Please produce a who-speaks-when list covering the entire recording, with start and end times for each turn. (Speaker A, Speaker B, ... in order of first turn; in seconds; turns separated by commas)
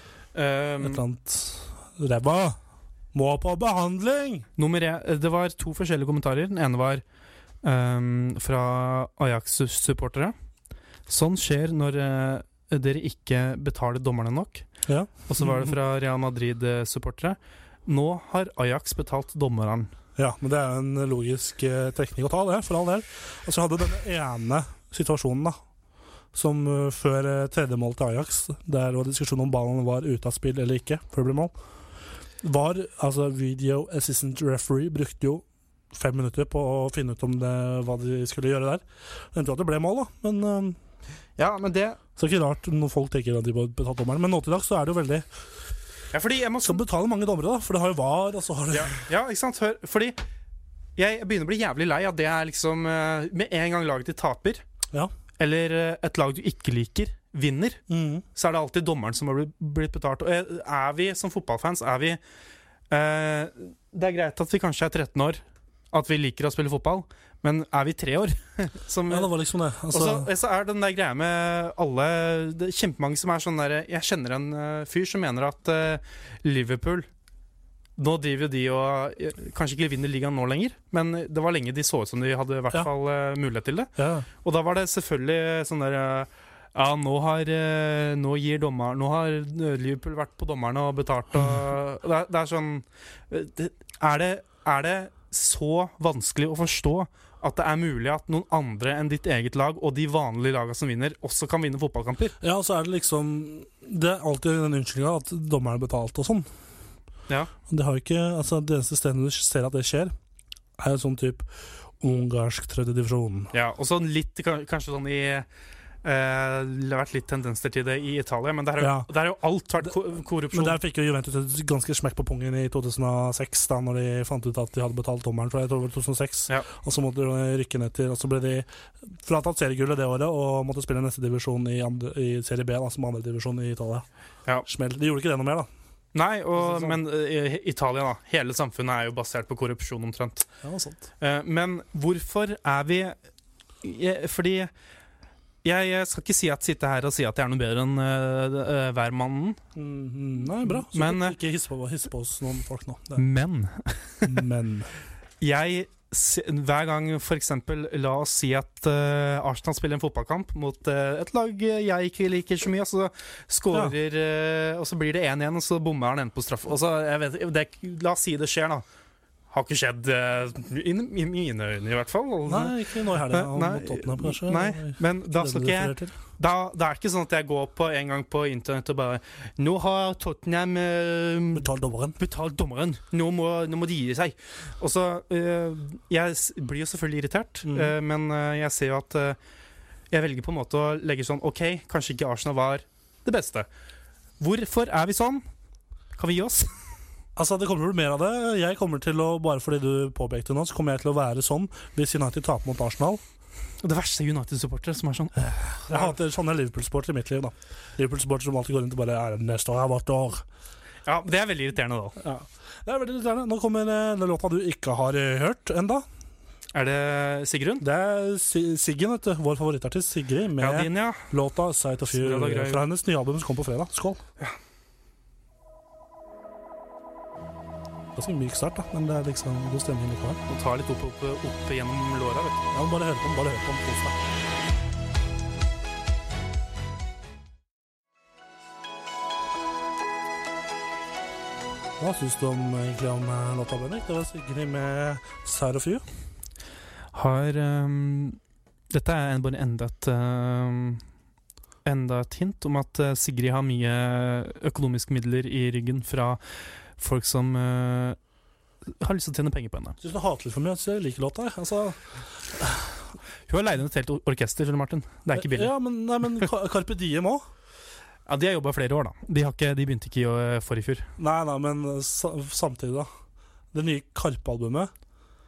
Speaker A: 0.3-1.0, Speaker B: 0.8-2.6, Speaker B: 3.1-4.5, Speaker A: 4.6-7.0, Speaker A: 7.6-10.3, Speaker A: 11.1-14.7, Speaker B: 14.9-15.7, Speaker A: 15.3-19.9, Speaker B: 20.1-25.6, Speaker B: 26.3-31.5, Speaker B: 32.4-40.8, Speaker A: 41.4-42.0, Speaker B: 42.2-45.3, Speaker A: 46.1-46.8, Speaker B: 46.6-49.0, Speaker A: 48.7-50.2, Speaker A: 51.0-54.6, Speaker A: 55.4-57.8, Speaker B: 57.9-58.2, Speaker A: 58.3-62.2, Speaker A: 62.9-69.3, Speaker B: 69.1-70.3, Speaker A: 69.9-77.1, Speaker A: 78.0-83.9, Speaker B: 84.0-84.3, Speaker A: 84.4-102.3, Speaker B: 102.4-106.5, Speaker B: 107.7-110.1, Speaker B: 110.8-113.5, Speaker A: 113.5-115.5, Speaker A: 116.0-120.8, Speaker B: 118.8-119.1, Speaker B: 120.5-134.0, Speaker B: 134.6-135.7, Speaker A: 136.1-140.4, Speaker B: 136.5-137.0, Speaker B: 140.6-141.1, Speaker A: 141.2-143.2, Speaker A: 143.8-144.7, Speaker A: 145.6-149.6, Speaker B: 149.7-153.2, Speaker A: 150.6-151.4, Speaker A: 153.2-154.4, Speaker B: 154.2-154.9, Speaker A: 155.4-168.8, Speaker A: 169.5-181.7, Speaker B: 172.5-176.2, Speaker B: 181.5-182.2, Speaker A: 182.2-189.4, Speaker B: 187.7-187.9, Speaker A: 190.1-193.7, Speaker A: 194.4-195.4, Speaker A: 196.2-196.8, Speaker B: 197.3-203.2, Speaker A: 203.8-206.2, Speaker B: 205.8-210.4, Speaker A: 211.1-212.2, Speaker B: 212.2-216.0, Speaker A: 216.7-217.8, Speaker B: 217.8-224.2, Speaker A: 220.6-221.3, Speaker A: 222.1-222.8, Speaker B: 228.1-230.4, Speaker A: 230.5-232.6, Speaker B: 232.7-234.2, Speaker B: 242.0-246.0, Speaker A: 247.1-248.4, Speaker A: 248.9-251.0, Speaker A: 251.8-256.4, Speaker A: 257.0-258.2, Speaker A: 258.9-260.0, Speaker B: 260.0-262.0, Speaker B: 262.5-263.0, Speaker A: 263.5-265.7, Speaker B: 265.3-267.4, Speaker A: 268.3-271.1, Speaker B: 271.2-273.1, Speaker B: 273.7-274.9